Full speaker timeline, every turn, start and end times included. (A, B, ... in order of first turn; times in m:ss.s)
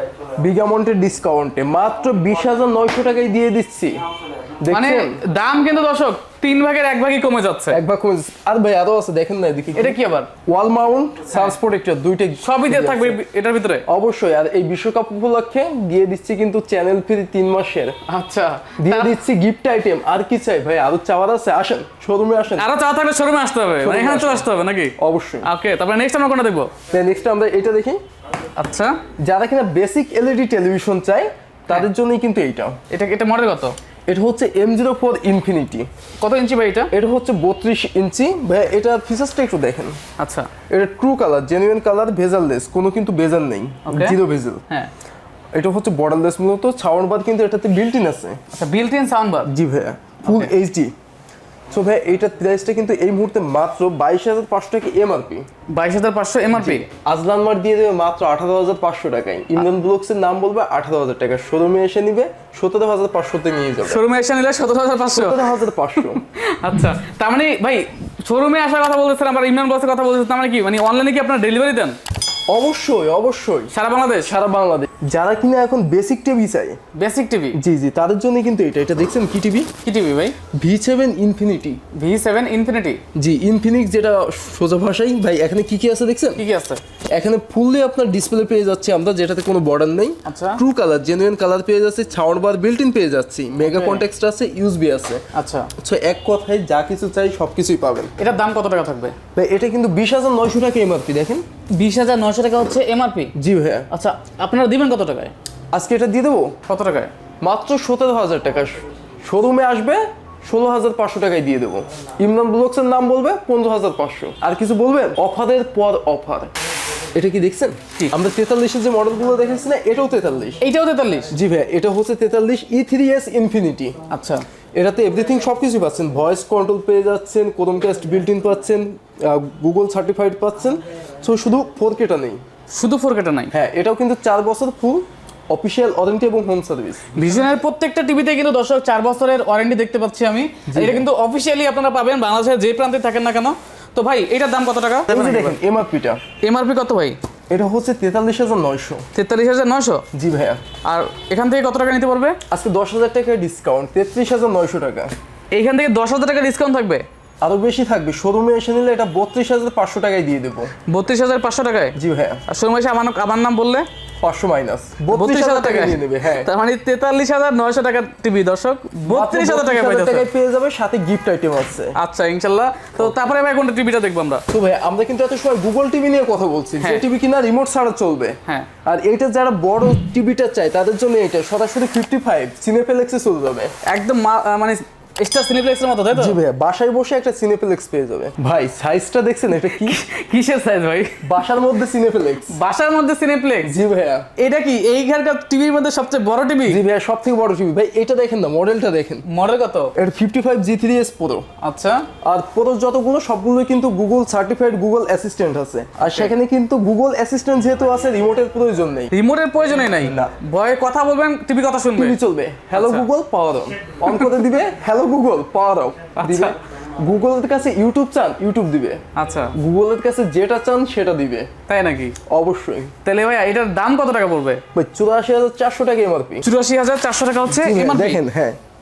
0:00.3-0:05.2 A
0:04.7-0:07.8 B
0:07.7-0:13.2 A
0:09.8-0:10.3 B
0:12.4-0:13.8 B
0:13.9-0:18.0 A
0:18.1-0:19.2 B
0:18.8-0:22.7 A
0:22.6-0:26.7 B
0:23.8-0:25.5 A
0:26.9-0:28.0 A
0:28.6-0:29.0 B
0:29.2-0:32.8 A
0:32.9-0:33.8 B
0:34.1-0:35.9 A
0:36.2-0:36.9 B
0:36.9-0:40.0 A
0:40.2-0:40.5 B
0:40.7-0:44.6 A
0:43.8-0:44.2 B
0:45.5-0:48.4 A
0:48.5-0:49.5 B
0:49.4-0:50.9 A
0:50.2-0:50.5 B
0:51.7-0:55.5 A
0:55.7-0:56.9 B
0:56.6-1:04.0 A
1:03.8-1:12.0 B
1:05.1-1:06.2 A
1:12.5-1:13.7 A
1:13.7-1:14.3 B
1:14.2-1:16.8 A
1:17.0-1:17.6 B
1:17.5-1:19.7 A
1:19.8-1:20.4 B
1:20.5-1:21.8 A
1:21.9-1:23.0 B
1:23.1-1:26.4 A
1:26.4-1:26.8 B
1:27.1-1:35.2 A
1:30.2-1:30.6 B
1:33.7-1:34.0 B
1:35.3-1:35.7 B
1:35.8-1:38.1 A
1:38.2-1:39.2 B
1:39.4-1:41.4 A
1:41.7-1:43.3 B
1:43.4-1:43.9 A
1:43.9-1:45.3 B
1:45.7-1:46.6 A
1:46.7-1:47.1 B
1:47.4-1:56.5 A
1:57.1-2:00.6 A
2:00.6-2:01.3 B
2:01.3-2:04.0 A
2:04.1-2:04.4 B
2:04.8-2:12.4 A
2:12.7-2:13.5 B
2:13.5-2:17.3 A
2:17.1-2:25.6 B
2:20.7-2:21.1 A
2:25.1-2:26.2 A
2:26.4-2:27.2 B
2:27.5-2:29.0 A
2:29.1-2:30.0 B
2:30.1-2:30.6 A
2:30.8-2:32.4 B
2:32.5-2:35.1 A
2:35.5-2:37.0 B
2:37.4-2:40.7 A
2:40.9-2:43.9 B
2:42.0-2:42.4 A
2:44.2-2:46.5 A
2:45.1-2:50.3 B
2:49.0-2:52.0 A
2:52.0-2:54.4 B
2:54.5-3:03.7 A
3:03.9-3:06.4 B
3:06.1-3:10.0 A
3:09.7-3:11.2 B
3:11.2-3:12.6 A
3:12.5-3:13.8 B
3:13.6-3:14.3 A
3:14.4-3:16.8 B
3:16.7-3:19.2 A
3:19.3-3:19.9 B
3:20.0-3:21.5 A
3:21.6-3:22.1 B
3:22.2-3:29.1 A
3:26.0-3:26.3 B
3:29.1-3:32.2 B
3:29.8-3:30.3 A
3:31.9-3:39.0 A
3:32.7-3:33.1 B
3:34.0-3:34.4 B
3:36.2-3:36.6 B
3:39.2-3:39.5 B
3:39.6-3:41.5 A
3:41.7-3:42.2 B
3:42.3-3:42.9 A
3:43.0-3:44.6 B
3:44.7-3:46.4 A
3:46.4-3:48.2 B
3:47.5-3:48.6 A